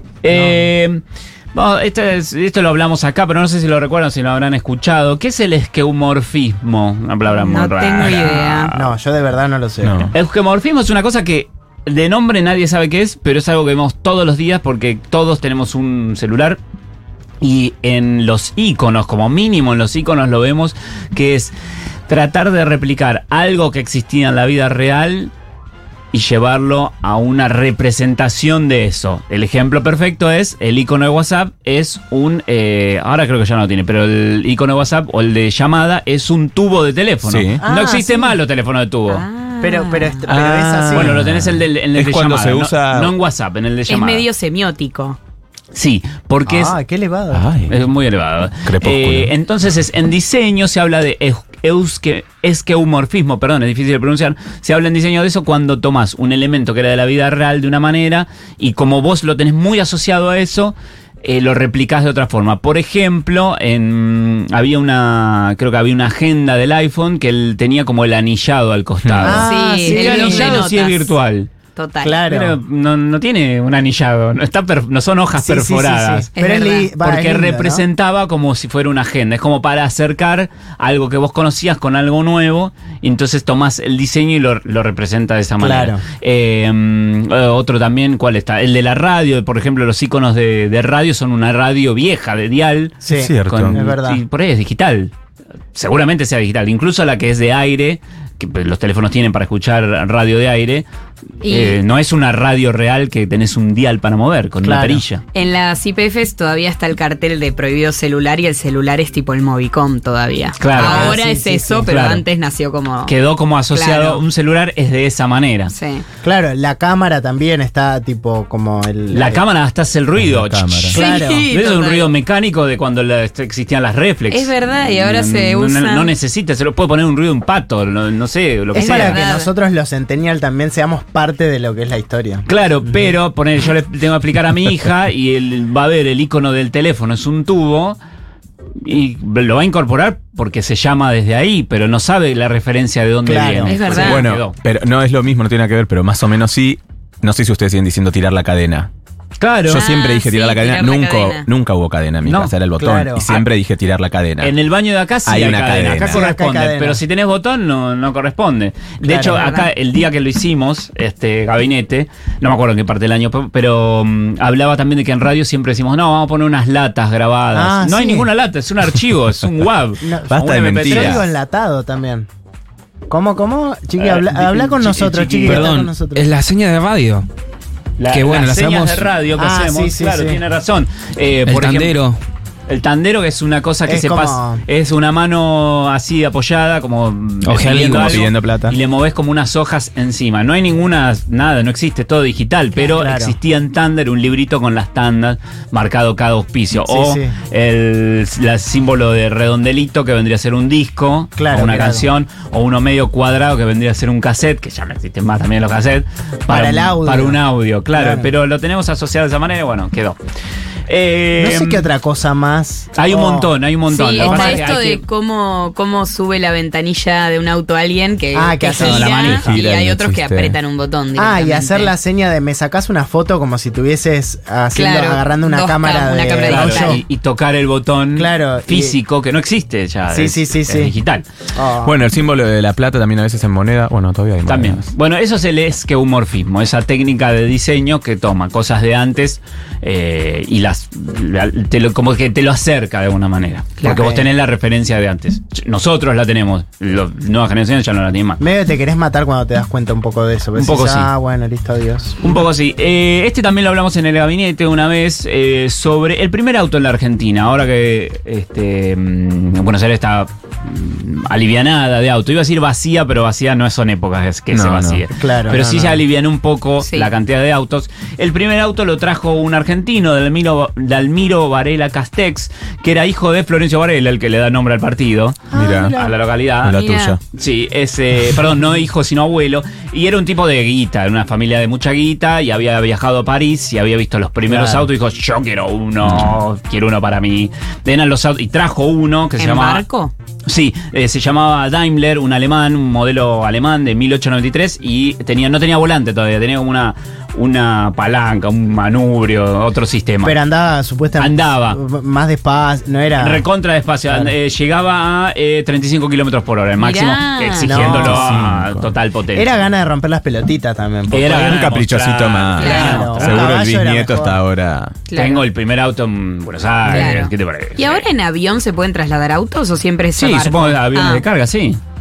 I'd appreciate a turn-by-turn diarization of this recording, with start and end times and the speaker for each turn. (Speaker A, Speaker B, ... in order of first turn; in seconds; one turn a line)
Speaker A: 0.2-1.0
Speaker B: 0.3-0.7
Speaker A: 1.5-8.9
Speaker C: 7.3-8.7
Speaker B: 8.7-10.1
Speaker D: 9.8-10.1
Speaker A: 10.1-16.6
Speaker A: 17.4-21.5
Speaker A: 22.1-25.3
Speaker A: 26.1-39.2
Speaker D: 37.2-37.6
Speaker B: 37.6-38.4
Speaker C: 39.1-40.3
Speaker B: 39.6-41.2
Speaker D: 40.3-43.1
Speaker A: 40.9-44.3
Speaker C: 43.9-45.2
Speaker A: 45.7-46.8
Speaker B: 46.5-47.4
Speaker D: 47.3-47.8
Speaker A: 47.7-71.5
Speaker D: 48.6-49.3
Speaker D: 69.0-69.5
Speaker B: 69.2-70.7
Speaker C: 69.4-71.2
Speaker C: 71.8-72.2
Speaker B: 72.0-72.6
Speaker A: 72.3-76.3
Speaker B: 75.4-77.8
Speaker C: 76.4-76.9
Speaker A: 77.0-95.1
Speaker B: 85.6-86.0
Speaker B: 93.0-94.2
Speaker D: 93.1-93.8
Speaker A: 95.7-100.9
Speaker C: 101.4-101.8
Speaker A: 101.5-105.2
Speaker B: 104.6-105.0
Speaker C: 105.3-113.2
Speaker A: 110.6-111.2
Speaker B: 110.7-111.9
Speaker A: 111.9-112.2
Speaker A: 113.0-115.7
Speaker C: 113.7-114.2
Speaker C: 115.7-116.0
Speaker B: 116.2-119.4
Speaker A: 119.1-129.2
Speaker D: 120.2-121.0
Speaker C: 120.9-122.1
Speaker B: 120.9-121.5
Speaker C: 124.3-126.1
Speaker B: 128.7-133.2
Speaker C: 128.7-129.5
Speaker A: 132.5-138.0
Speaker A: 138.8-144.6
Speaker B: 143.2-143.8
Speaker C: 143.6-144.3
Speaker D: 143.9-148.9
Speaker A: 149.4-149.9
Speaker D: 149.7-154.6
Speaker C: 149.7-151.5
Speaker A: 152.2-152.6
Speaker B: 152.8-153.3
Speaker A: 153.2-153.5
Speaker A: 154.4-171.3
Speaker D: 155.2-156.2
Speaker B: 155.8-157.0
Speaker B: 159.0-159.7
Speaker B: 167.5-168.3
Speaker B: 170.0-172.3
Speaker D: 170.3-171.2
Speaker B: 173.1-176.3
Speaker A: 174.0-175.7
Speaker E: 175.4-177.3
Speaker A: 178.0-182.0
Speaker E: 178.1-179.1
Speaker B: 179.3-180.4
Speaker E: 181.5-182.2
Speaker A: 182.7-210.2
Speaker B: 183.9-184.6
Speaker E: 187.4-188.2
Speaker D: 187.6-188.8
Speaker B: 192.9-193.4
Speaker B: 196.9-197.3
Speaker B: 201.4-202.1
Speaker B: 206.5-207.4
Speaker B: 207.9-208.3
Speaker A: 210.9-211.9
Speaker B: 211.4-213.5
Speaker A: 212.9-215.0
Speaker C: 213.9-222.0
Speaker B: 214.2-214.7
Speaker B: 218.3-219.4
Speaker A: 218.7-219.6
Speaker D: 219.2-220.6
Speaker B: 221.2-227.0
Speaker C: 224.7-227.0
Speaker A: 226.4-231.2
Speaker B: 228.2-229.0
Speaker B: 230.1-230.9
Speaker B: 231.6-232.0
Speaker D: 231.8-234.9
Speaker A: 234.4-248.4
Speaker B: 243.8-244.3
Speaker B: 248.4-252.3
Speaker A: 250.6-251.1
Speaker A: 252.2-275.4
Speaker D: 264.5-265.1
Speaker B: 265.1-266.0
Speaker C: 266.8-267.1
Speaker B: 275.5-276.1
Speaker D: 275.5-276.0
Speaker A: 275.9-276.8
Speaker D: 276.6-277.2
Speaker C: 276.8-277.2
Speaker A: 277.3-289.8
Speaker B: 284.5-284.9
Speaker D: 286.0-286.4
Speaker C: 289.4-290.1
Speaker A: 290.4-300.4
Speaker B: 300.2-303.5
Speaker A: 301.2-301.8
Speaker A: 303.2-309.5
Speaker B: 304.1-304.3
Speaker C: 306.8-307.8
Speaker B: 307.6-308.4
Speaker D: 307.8-308.9
Speaker B: 309.3-311.6
Speaker A: 311.1-313.5
Speaker D: 311.3-315.0
Speaker C: 312.6-313.1
Speaker B: 312.6-314.4
Speaker C: 315.1-315.4
Speaker A: 315.1-318.1
Speaker C: 316.9-321.2
Speaker A: 320.2-321.8